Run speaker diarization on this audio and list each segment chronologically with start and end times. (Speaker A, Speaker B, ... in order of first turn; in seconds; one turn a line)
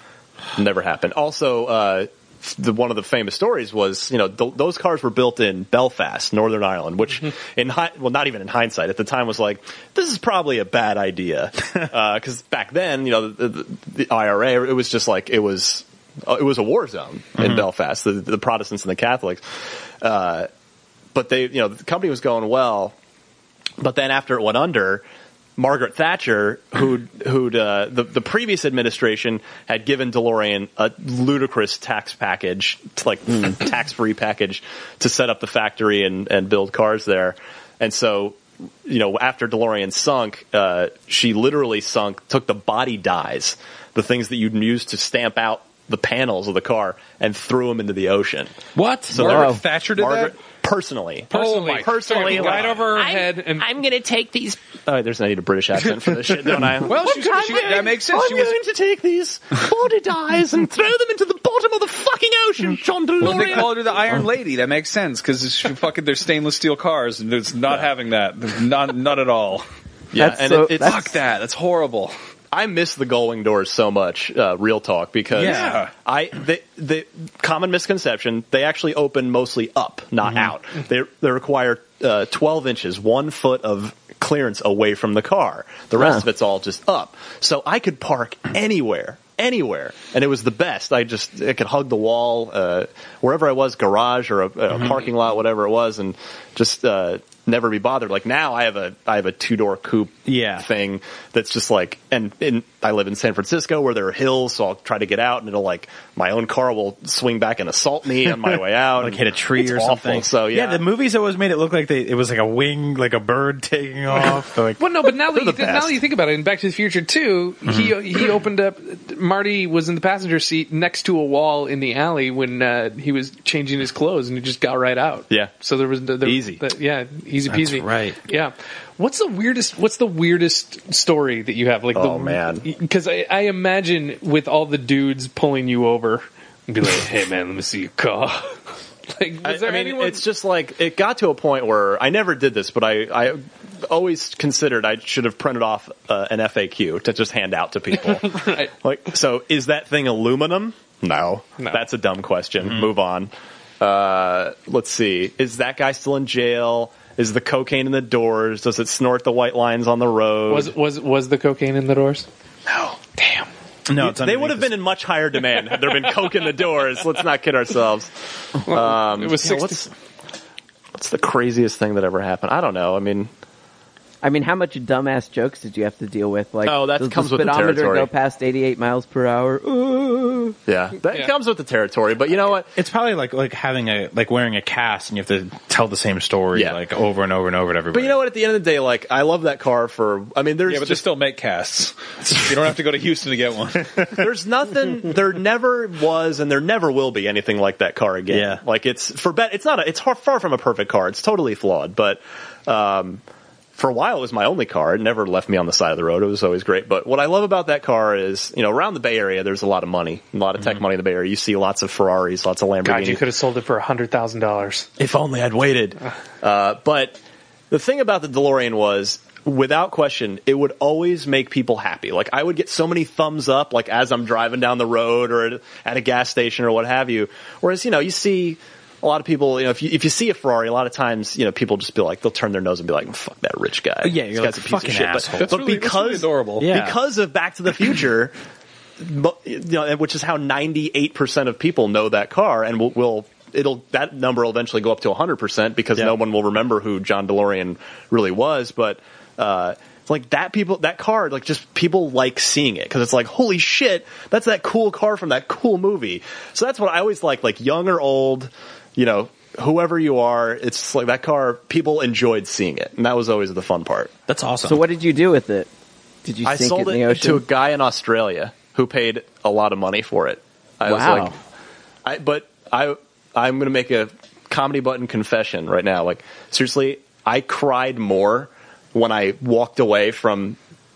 Speaker A: 0.6-19.4
Speaker B: 17.4-17.6
Speaker A: 20.0-20.5
Speaker A: 21.1-22.9
Speaker A: 23.8-25.0
Speaker A: 25.6-48.5
Speaker C: 48.8-50.3
Speaker A: 49.1-63.9
Speaker D: 49.2-49.6
Speaker C: 51.3-52.9
Speaker E: 51.3-53.7
Speaker C: 56.9-58.5
Speaker C: 63.2-69.7
Speaker A: 70.1-71.1
Speaker D: 70.2-71.1
Speaker C: 70.8-72.2
Speaker A: 72.5-110.8
Speaker C: 75.3-75.9
Speaker B: 75.4-75.8
Speaker B: 100.3-100.7
Speaker B: 109.0-114.8
Speaker E: 114.8-140.2
Speaker A: 115.3-116.0
Speaker B: 117.7-117.9
Speaker A: 126.2-126.6
Speaker B: 127.5-128.2
Speaker A: 131.9-132.7
Speaker A: 139.4-160.7
Speaker E: 148.1-148.7
Speaker E: 160.5-162.3
Speaker A: 162.7-163.0
Speaker E: 163.2-163.5
Speaker B: 163.9-164.8
Speaker A: 163.9-169.9
Speaker E: 168.7-169.9
Speaker A: 171.0-173.3
Speaker D: 174.2-180.6
Speaker A: 176.6-178.1
Speaker A: 180.7-182.7
Speaker B: 182.8-188.2
Speaker A: 186.5-186.8
Speaker A: 187.9-191.0
Speaker C: 190.7-194.2
Speaker A: 194.1-203.2
Speaker B: 198.3-198.6
Speaker A: 203.8-213.2
Speaker E: 212.8-214.9
Speaker A: 215.0-217.2
Speaker A: 217.7-238.3
Speaker B: 234.0-235.6
Speaker C: 235.3-236.7
Speaker B: 236.6-237.0
Speaker A: 239.0-264.1
Speaker B: 264.3-264.8
Speaker D: 264.6-265.7
Speaker D: 266.2-267.4
Speaker A: 266.4-271.3
Speaker D: 270.9-271.3
Speaker A: 272.1-280.6